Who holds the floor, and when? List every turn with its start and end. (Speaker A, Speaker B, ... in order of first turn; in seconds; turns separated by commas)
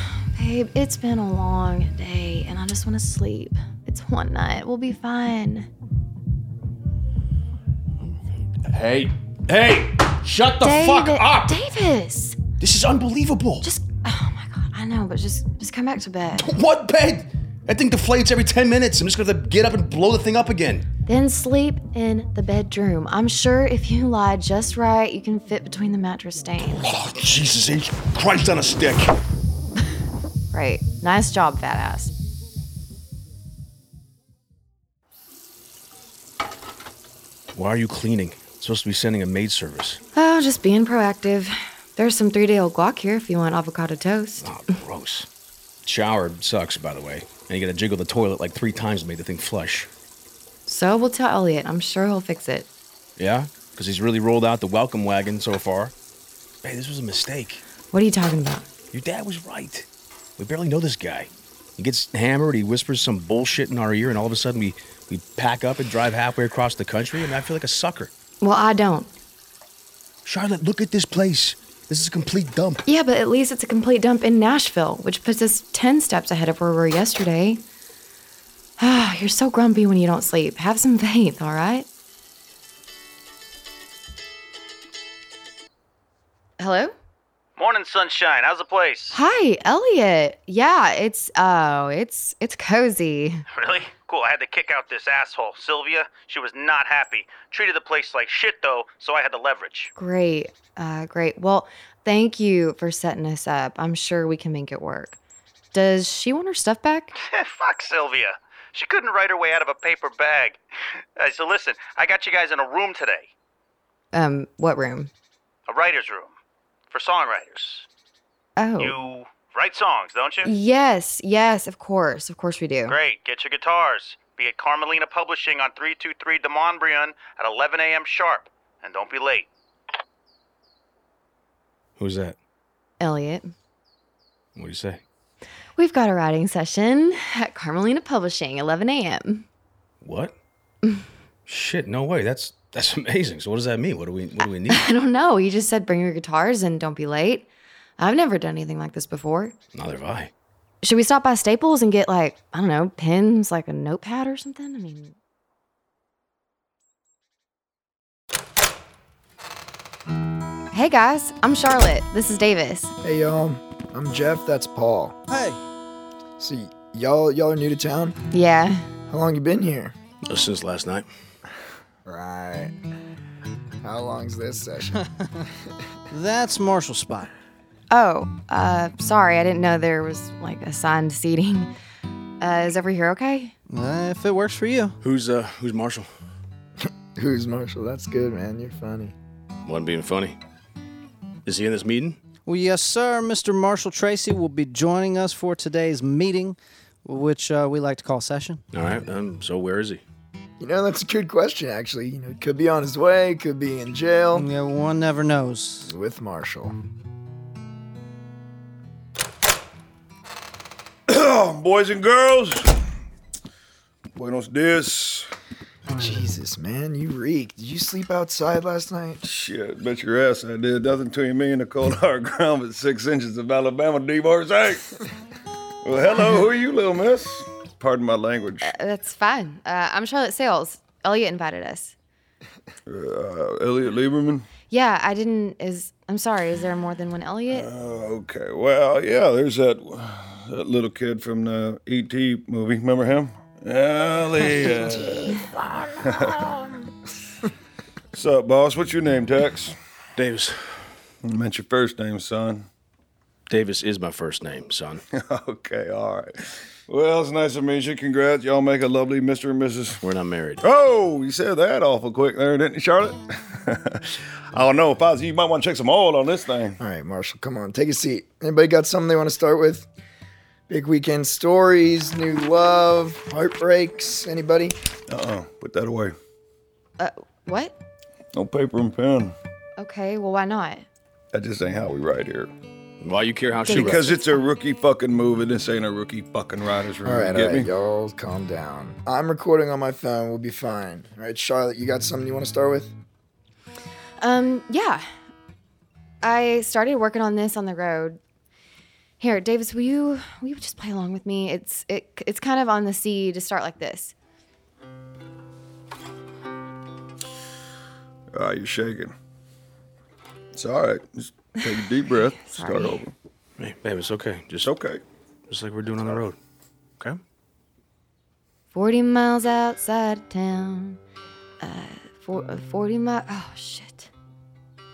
Speaker A: 0.4-5.7, Speaker B: 8.0-11.6, Speaker A: 10.6-12.4, Speaker B: 12.6-13.7, Speaker A: 13.6-16.5, Speaker B: 16.4-20.9, Speaker A: 21.1-26.9, Speaker B: 26.6-29.1, Speaker A: 30.5-32.1, Speaker B: 37.5-40.0, Speaker A: 40.1-44.5, Speaker B: 44.4-45.3, Speaker B: 45.8-49.9, Speaker A: 50.7-52.7, Speaker B: 53.2-55.9, Speaker B: 56.6-57.6, Speaker A: 57.9-58.7, Speaker B: 58.9-68.1, Speaker A: 68.4-69.1, Speaker B: 70.2-72.8, Speaker A: 72.9-77.6, Speaker A: 78.8-81.9, Speaker A: 86.6-86.9, Speaker C: 87.6-89.2, Speaker A: 89.1-93.5, Speaker C: 93.5-99.9, Speaker A: 100.0-105.2, Speaker A: 105.7-107.2, Speaker C: 107.2-110.6, Speaker C: 111.2-113.3, Speaker A: 114.1-115.1, Speaker C: 115.7-116.3, Speaker C: 116.9-117.9, Speaker A: 118.6-119.0, Speaker C: 118.8-120.5, Speaker A: 120.5-123.0, Speaker C: 122.9-129.5, Speaker B: 132.0-132.4, Speaker A: 133.0-133.5, Speaker B: 134.6-135.0, Speaker A: 135.8-139.5, Speaker B: 140.0-140.3, Speaker B: 141.5-144.9, Speaker A: 144.7-147.5, Speaker A: 148.0-149.6, Speaker B: 149.7-150.3, Speaker A: 150.8-155.2, Speaker A: 160.7-162.9, Speaker D: 163.0-165.2, Speaker E: 165.3-165.6, Speaker D: 166.4-168.2, Speaker A: 168.3-168.9, Speaker D: 169.1-169.9, Speaker B: 170.3-171.1, Speaker D: 172.1-172.7, Speaker D: 173.8-175.0, Speaker E: 176.1-177.3, Speaker A: 177.9-181.7, Speaker A: 182.4-183.5, Speaker E: 183.7-185.0, Speaker B: 185.0-186.1, Speaker D: 187.2-189.2, Speaker B: 189.7-190.4, Speaker B: 191.4-192.2, Speaker E: 192.5-198.6, Speaker B: 198.7-200.0, Speaker D: 200.6-204.5, Speaker E: 204.3-205.9, Speaker D: 205.8-206.7, Speaker F: 211.1-212.7, Speaker F: 214.2-215.3, Speaker D: 215.9-219.2, Speaker F: 219.2-224.8, Speaker F: 225.8-228.7, Speaker A: 228.6-231.9, Speaker F: 232.9-234.5, Speaker A: 234.7-237.7, Speaker F: 237.5-245.4, Speaker F: 246.0-246.5, Speaker F: 248.1-249.8, Speaker B: 250.2-250.6, Speaker F: 251.2-252.7, Speaker B: 253.5-255.0, Speaker F: 255.1-260.0, Speaker B: 260.0-260.6, Speaker F: 260.6-264.0, Speaker F: 264.5-266.8, Speaker D: 266.8-269.9, Speaker D: 270.7-274.8, Speaker F: 275.1-276.1, Speaker A: 277.0-277.8, Speaker F: 278.4-279.3, Speaker A: 279.8-280.9, Speaker F: 281.3-282.5, Speaker B: 283.0-284.1, Speaker A: 283.7-284.2, Speaker F: 283.7-287.7, Speaker D: 287.0-292.9, Speaker A: 294.2-295.0, Speaker A: 296.2-298.2, Speaker A: 299.2-304.1, Speaker F: 308.3-309.1, Speaker F: 310.6-313.1, Speaker A: 312.4-313.1, Speaker B: 313.6-314.7, Speaker F: 314.6-315.0, Speaker B: 315.5-316.4, Speaker A: 318.7-321.0, Speaker A: 321.6-324.1